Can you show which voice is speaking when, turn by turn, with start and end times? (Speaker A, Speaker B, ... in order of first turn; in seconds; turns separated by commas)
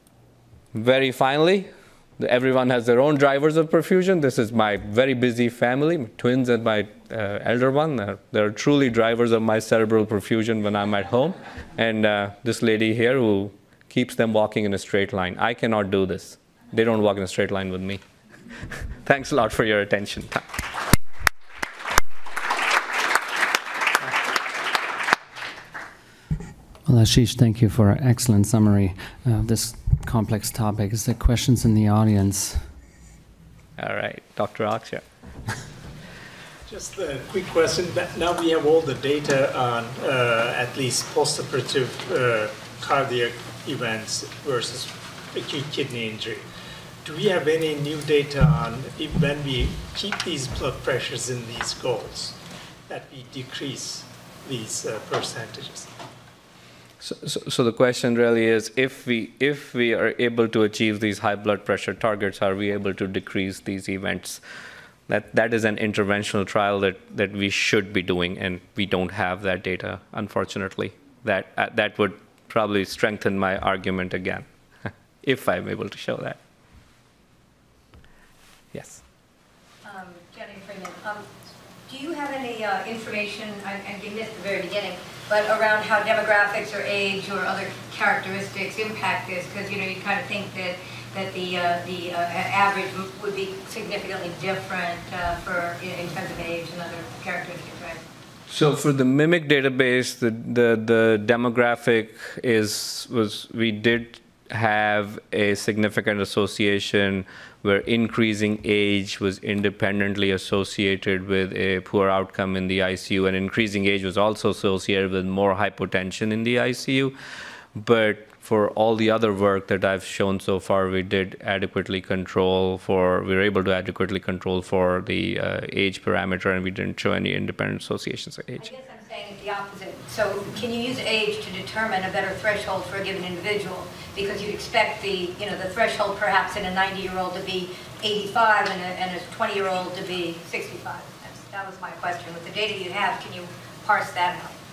Speaker A: 0.7-18.0, Speaker A: 18.7-20.6, Speaker B: 26.9-32.7, Speaker A: 33.8-35.0, Speaker C: 36.7-46.4, Speaker C: 47.0-52.4, Speaker C: 52.9-55.9, Speaker A: 57.0-64.4, Speaker A: 65.1-74.5, Speaker A: 75.2-76.4, Speaker A: 78.7-79.0, Speaker D: 79.8-81.3, Speaker D: 81.9-98.0, Speaker A: 98.5-117.1, Speaker A: 117.8-128.7, Speaker D: 128.6-144.6